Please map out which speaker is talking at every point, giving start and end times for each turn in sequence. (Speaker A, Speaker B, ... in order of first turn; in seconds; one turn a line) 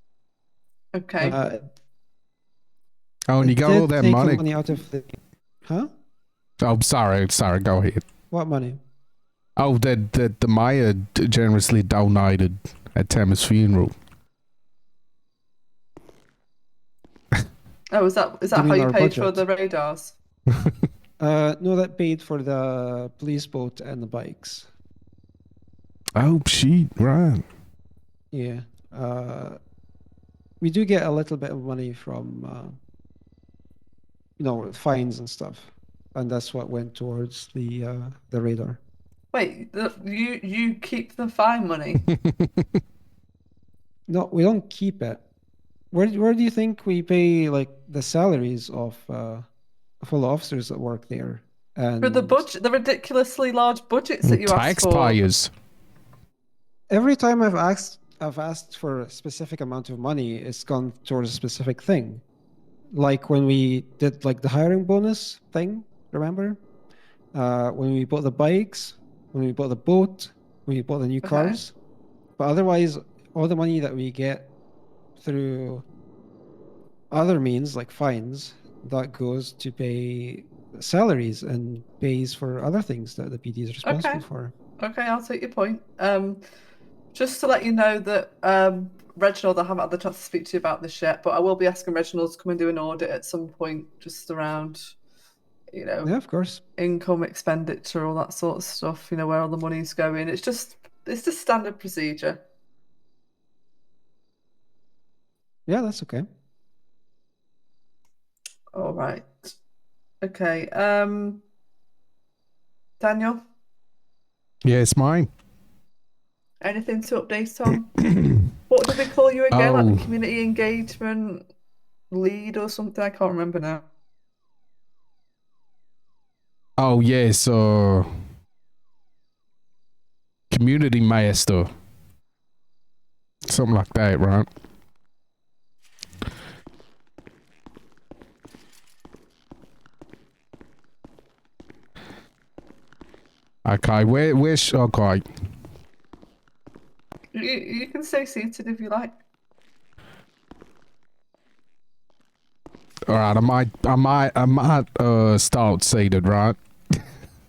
Speaker A: 0.9-1.4
Speaker B: 1.2-1.6
Speaker C: 3.3-4.4
Speaker B: 3.4-5.9
Speaker C: 6.6-8.0
Speaker B: 8.3-8.8
Speaker C: 9.6-13.9
Speaker A: 17.9-20.1
Speaker B: 18.6-19.4
Speaker B: 21.2-24.7
Speaker C: 26.1-27.4
Speaker B: 28.3-29.6
Speaker B: 30.6-32.8
Speaker B: 34.4-38.8
Speaker A: 39.3-42.0
Speaker C: 42.1-42.8
Speaker B: 44.1-45.2
Speaker B: 45.9-49.5
Speaker B: 50.0-52.5
Speaker A: 52.0-55.2
Speaker C: 54.2-55.5
Speaker B: 56.9-62.2
Speaker B: 63.0-66.6
Speaker B: 67.3-71.7
Speaker A: 71.2-71.6
Speaker B: 72.4-74.5
Speaker B: 75.2-75.8
Speaker B: 77.1-84.5
Speaker A: 83.8-84.2
Speaker A: 84.8-86.4
Speaker A: 87.1-94.9
Speaker A: 95.7-96.1
Speaker B: 96.0-96.6
Speaker A: 96.8-102.4
Speaker B: 105.7-106.3
Speaker A: 108.7-109.5
Speaker A: 110.2-111.4
Speaker A: 113.0-113.4
Speaker C: 114.7-115.3
Speaker A: 116.6-118.0
Speaker A: 118.7-121.4
Speaker C: 119.5-120.2
Speaker A: 122.1-123.8
Speaker C: 126.8-128.1
Speaker C: 130.5-131.7
Speaker C: 133.5-134.5
Speaker C: 143.7-145.2
Speaker A: 147.3-149.1
Speaker C: 153.1-156.6